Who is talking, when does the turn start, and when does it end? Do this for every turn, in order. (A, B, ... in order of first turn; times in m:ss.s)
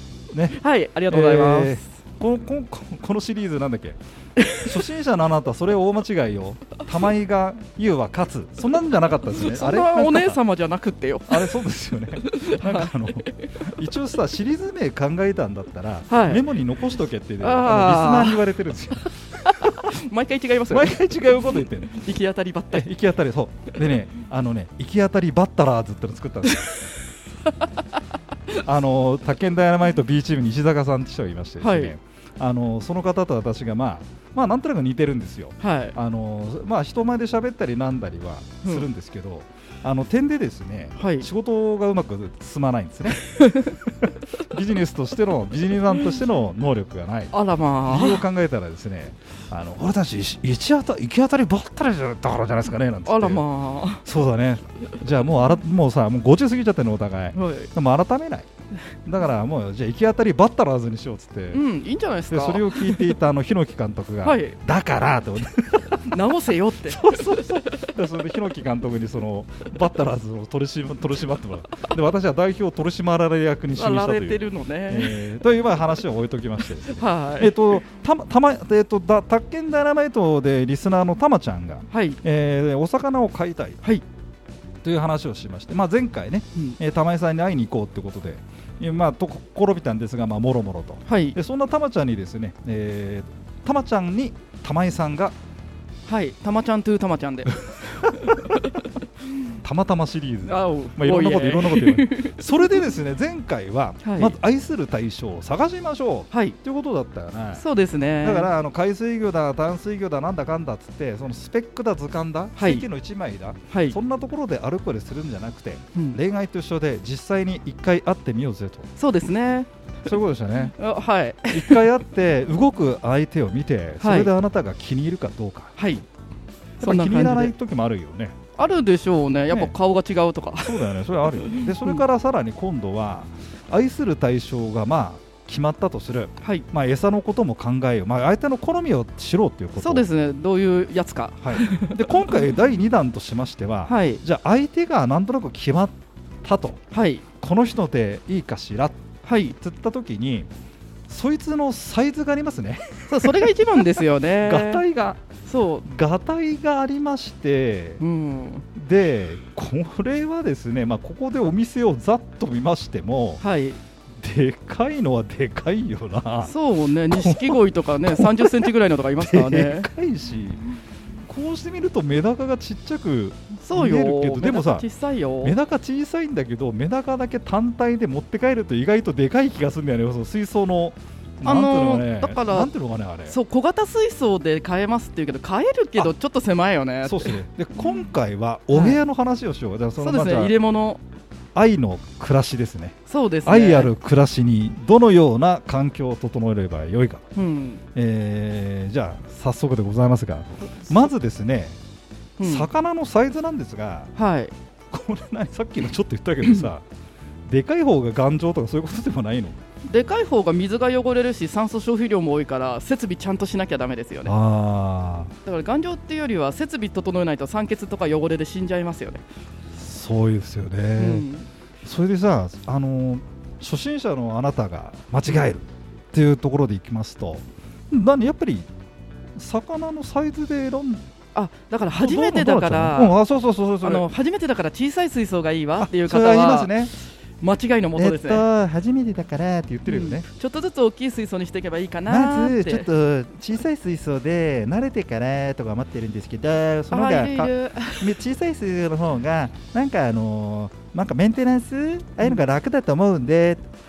0:00.3-0:04.0 A
0:00.5-0:01.8 B
0:04.4-0:04.6 B
0:04.5-0:10.4 A
0:09.3-0:11.5 B
0:11.3-0:19.9 A
0:12.2-0:13.5 B
0:16.1-0:16.4 B
0:17.4-0:18.4 B
0:19.4-0:22.9 B
0:20.7-0:21.9 A
0:22.7-0:26.8 A
0:28.5-0:47.3 A
0:31.6-0:31.9 B
0:35.6-0:35.9 B
0:41.0-0:41.2 B
0:43.3-0:43.7 B
0:47.3-0:48.2 B
0:47.9-0:53.4 A
0:53.0-0:54.0 B
0:54.0-0:58.5 A
0:57.3-0:57.7 B
0:59.0-1:01.6 A
1:01.5-1:03.1 B
1:02.3-1:06.2 A
1:04.2-1:04.6 B
1:06.1-1:07.9 B
1:06.8-1:23.8 A
1:13.7-1:15.3 B
1:16.9-1:17.7 B
1:21.9-1:22.2 B
1:24.8-1:35.3 A
1:31.1-1:31.4 B
1:36.1-1:37.6 B
1:37.8-1:38.4 A
1:38.1-1:38.7 B
1:39.6-1:47.6 A
1:40.4-1:42.9 B
1:44.0-1:44.3 B
1:46.3-1:46.6 B
1:47.6-1:48.5 B
1:48.2-1:58.9 A
1:52.6-1:52.8 B
1:53.7-1:54.0 B
1:59.0-1:59.7 B
2:00.0-2:00.7 A
2:00.6-2:01.9 B
2:01.5-2:05.7 A
2:04.0-2:04.3 B
2:05.8-2:06.0 B
2:06.8-2:07.5 B
2:06.8-2:08.4 A
2:08.6-2:10.8 B
2:10.6-2:20.0 A
2:11.4-2:12.0 B
2:16.4-2:16.6 B
2:19.8-2:22.3 B
2:21.4-2:26.8 A
2:23.9-2:24.2 B
2:26.9-2:27.2 B
2:27.4-2:29.0 A
2:29.2-2:29.6 B
2:29.6-2:30.5 A
2:31.1-2:35.2 A
2:33.1-2:34.8 B
2:35.4-2:35.8 B
2:35.8-2:38.0 A
2:38.0-2:38.6 B
2:38.7-2:43.4 A
2:43.4-2:43.8 B
2:44.2-2:46.5 A
2:46.4-2:49.9 B
2:47.1-2:50.6 A
2:51.2-2:54.8 A
2:53.6-2:55.5 B
2:55.4-3:03.4 A
3:01.4-3:02.7 B
3:03.3-3:07.4 B
3:07.0-3:10.6 A
3:08.7-3:09.0 B
3:10.0-3:11.0 B
3:11.5-3:17.2 A
3:13.0-3:13.9 B
3:17.3-3:17.8 B
3:17.9-3:21.8 A
3:20.7-3:21.0 B
3:22.4-3:22.7 B
3:22.4-3:24.1 A
3:24.1-3:24.5 B
3:24.9-3:26.8 A
3:27.5-3:29.6 A
3:29.8-3:34.3 B
3:34.2-3:35.3 A
3:35.4-3:39.2 B
3:39.7-3:41.2 A
3:41.0-3:41.5 B
3:41.8-3:48.7 A
3:49.4-3:51.0 A
3:51.3-3:53.1 B
3:51.9-3:54.1 A
3:53.8-3:58.4 B
3:55.8-3:56.9 A
3:57.9-4:00.2 A
3:59.8-4:02.9 B
4:02.1-4:13.6 A
4:06.9-4:08.2 B